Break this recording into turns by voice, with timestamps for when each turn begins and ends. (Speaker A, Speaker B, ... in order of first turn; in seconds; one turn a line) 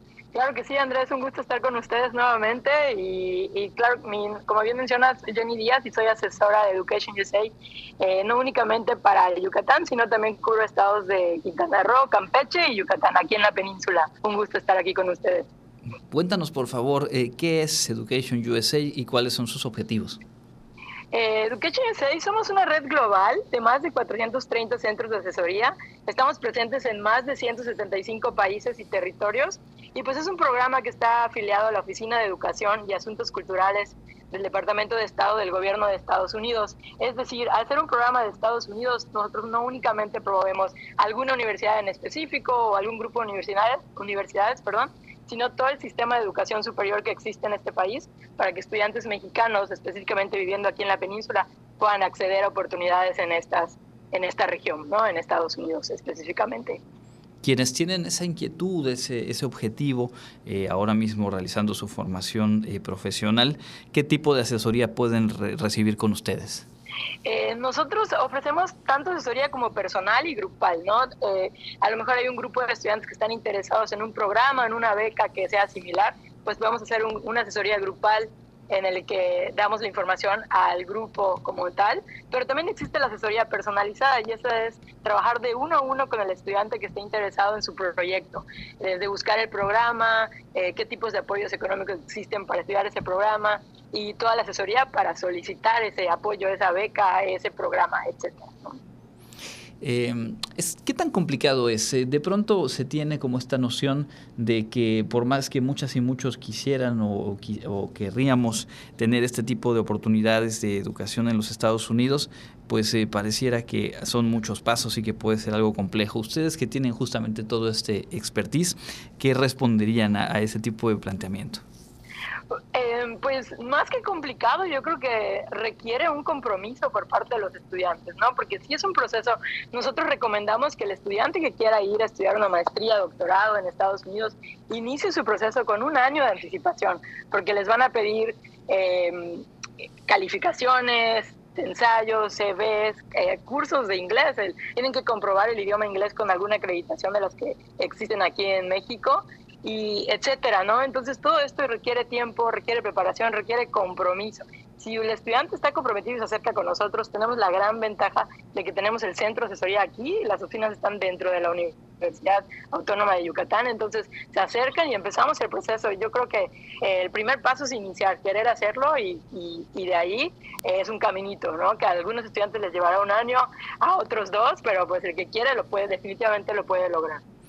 Speaker A: 0.3-15.5
Speaker B: 16.1-20.2
Speaker A: 21.1-56.8
Speaker B: 57.4-66.7
Speaker A: 67.2-98.8
Speaker B: 99.8-121.6
Speaker A: 122.7-139.5
Speaker A: 140.1-177.2